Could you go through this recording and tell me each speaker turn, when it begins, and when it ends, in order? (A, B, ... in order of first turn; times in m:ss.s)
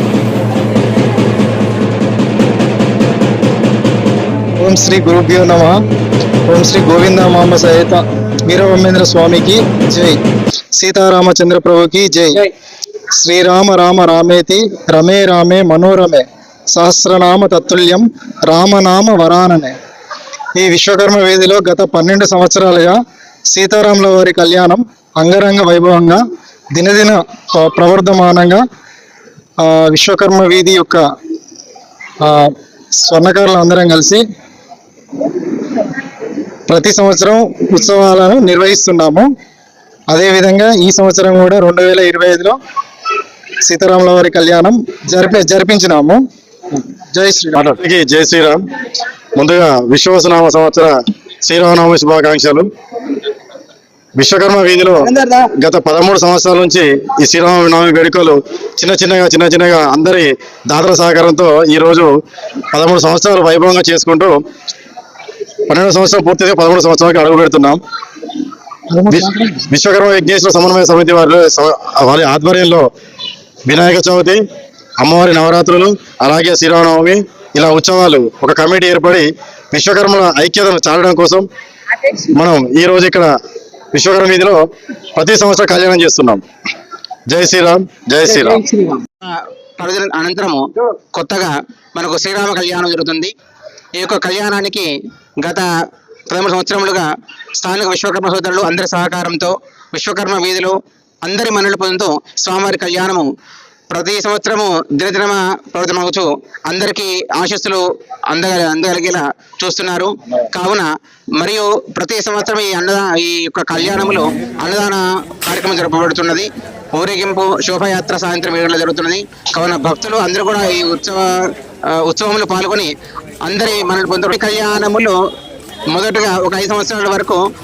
0:04.6-0:05.8 A
0:06.5-0:10.2 A
0:10.8-0:12.5 A
0:13.2-0:19.8 A
0:20.6-0:23.0 A
0:23.5-0:26.2 A
0:26.7-0:28.6 A
0:29.6-0:31.0 A
0:32.2-0:32.5 A
0:33.0-0:34.2 A
0:36.7-0:39.3 A
0:40.1-0:42.6 A
0:43.6-0:46.2 A
0:46.8-0:47.7 A
0:47.6-0:48.6 B
0:49.4-0:50.9 B
0:51.4-0:52.7 B
0:54.2-0:55.1 B
0:55.0-0:55.4 C
0:55.6-1:02.1 B
1:02.7-1:04.4 B
1:05.7-1:07.8 B
1:08.9-1:09.4 A
1:09.1-1:12.8 B
1:13.7-1:14.4 B
1:15.0-1:21.4 B
1:22.0-1:23.3 B
1:23.9-1:24.6 B
1:25.2-1:26.4 B
1:27.3-1:28.7 B
1:28.8-1:30.6 C
1:31.1-1:33.3 C
1:34.0-1:34.9 C
1:35.4-1:35.7 C
1:36.3-1:37.1 C
1:37.6-1:43.3 C
1:43.9-1:50.9 C
1:51.4-2:01.2 C
2:02.0-2:02.9 C
2:03.4-2:05.2 C
2:05.9-2:07.4 C